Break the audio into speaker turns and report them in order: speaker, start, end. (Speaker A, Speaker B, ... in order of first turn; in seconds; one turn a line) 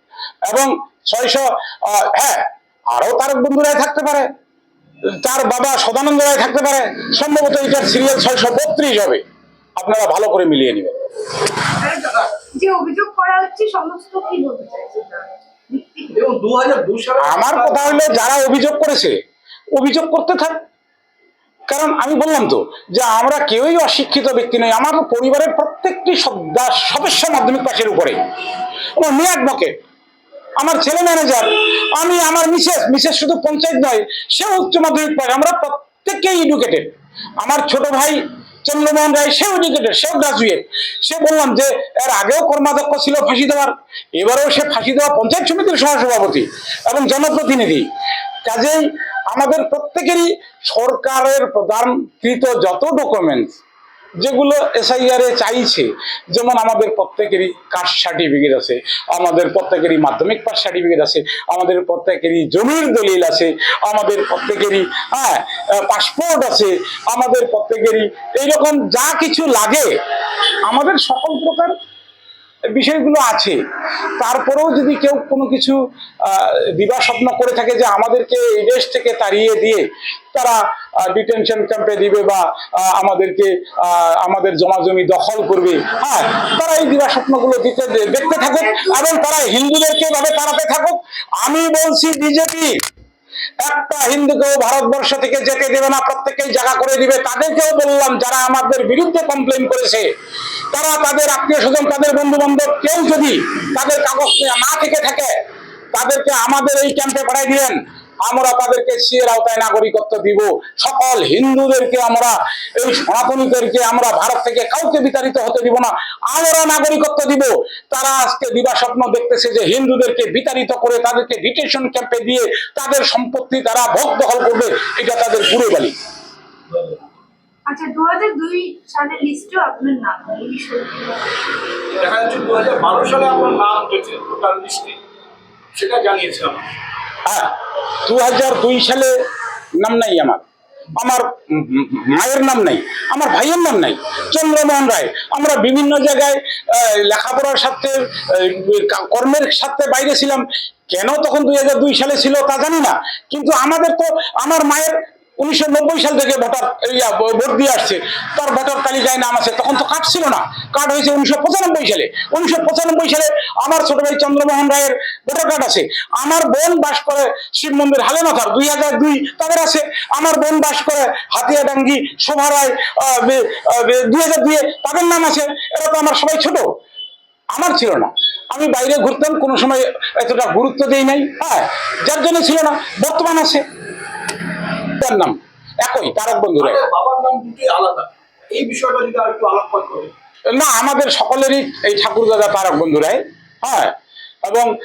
Speaker A: 0.5-4.3
Speaker A: 5.2-9.2
Speaker A: 9.8-11.0
Speaker B: 11.8-16.2
Speaker C: 16.1-18.3
Speaker A: 17.2-19.1
Speaker A: 19.8-20.6
Speaker A: 21.7-28.2
Speaker A: 29.0-29.7
Speaker A: 30.6-47.9
Speaker A: 48.4-48.8
Speaker A: 49.3-53.5
Speaker A: 54.2-69.9
Speaker A: 70.7-71.7
Speaker A: 72.7-73.6
Speaker A: 74.2-92.7
Speaker B: 88.2-89.2
Speaker A: 93.6-100.1
Speaker A: 100.7-105.3
Speaker A: 105.9-125.9
Speaker B: 127.7-131.2
Speaker C: 131.9-135.0
Speaker C: 135.7-136.6
Speaker A: 138.1-139.1
Speaker A: 139.8-140.4
Speaker A: 141.0-176.6
Speaker A: 177.5-183.6
Speaker A: 185.0-186.8
Speaker C: 186.6-190.1
Speaker A: 190.5-193.9